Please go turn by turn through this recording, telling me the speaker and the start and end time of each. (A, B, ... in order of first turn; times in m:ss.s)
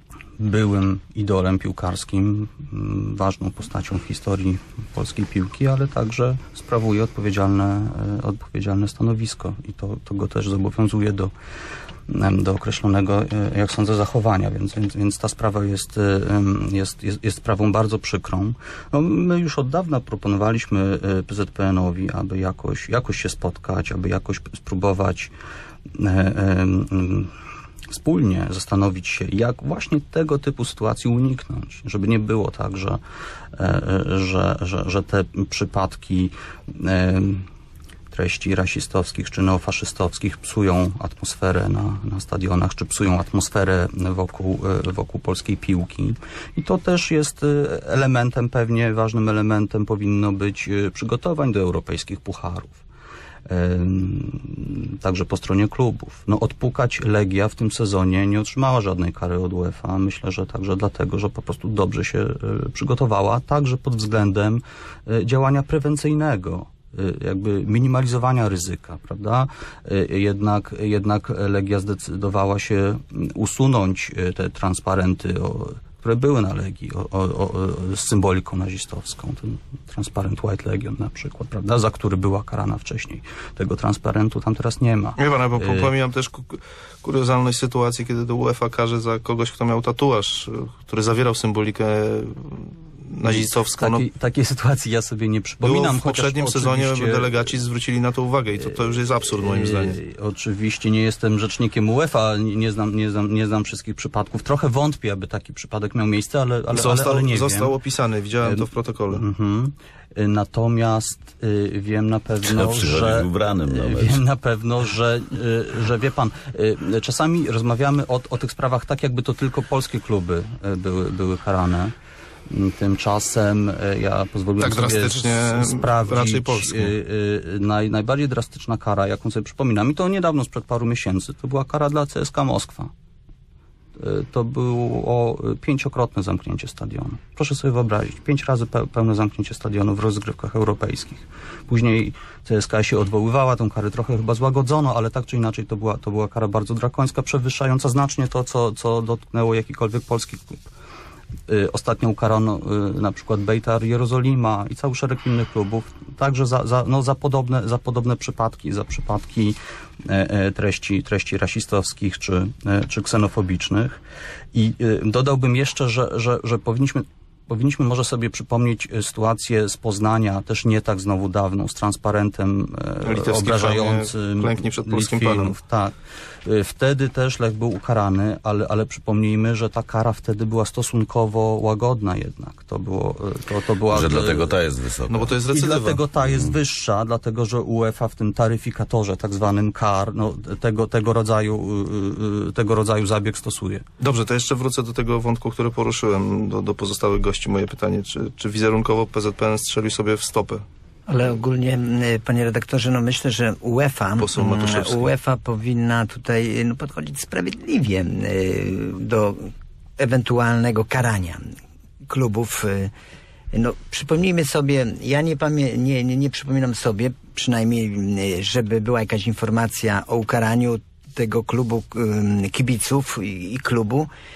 0:00.4-0:11.3 A
0:12.1-0:25.3 A
0:25.9-0:27.3 A
0:27.9-0:33.0 A
0:33.6-0:37.5 A
0:38.1-0:52.8 A
0:53.5-1:25.9 A
1:25.2-1:34.0 B
1:33.2-1:37.5 A
1:35.6-1:40.0 B
1:39.4-1:47.7 A
1:46.7-1:49.2 B
1:48.4-2:01.9 A
1:52.5-1:54.2 C
2:02.5-2:12.9 A
2:04.6-2:06.9 B
2:14.0-2:30.6 A
2:31.5-2:44.0 A
2:44.5-3:04.5 A
2:53.0-2:55.6 B
3:03.9-3:05.3 C
3:05.1-3:06.0 B
3:05.5-3:13.8 A
3:06.2-3:06.5 C
3:14.0-3:20.6 B
3:21.1-3:31.4 D
3:24.2-3:25.1 B
3:32.1-3:32.9 D
3:33.5-3:44.1 D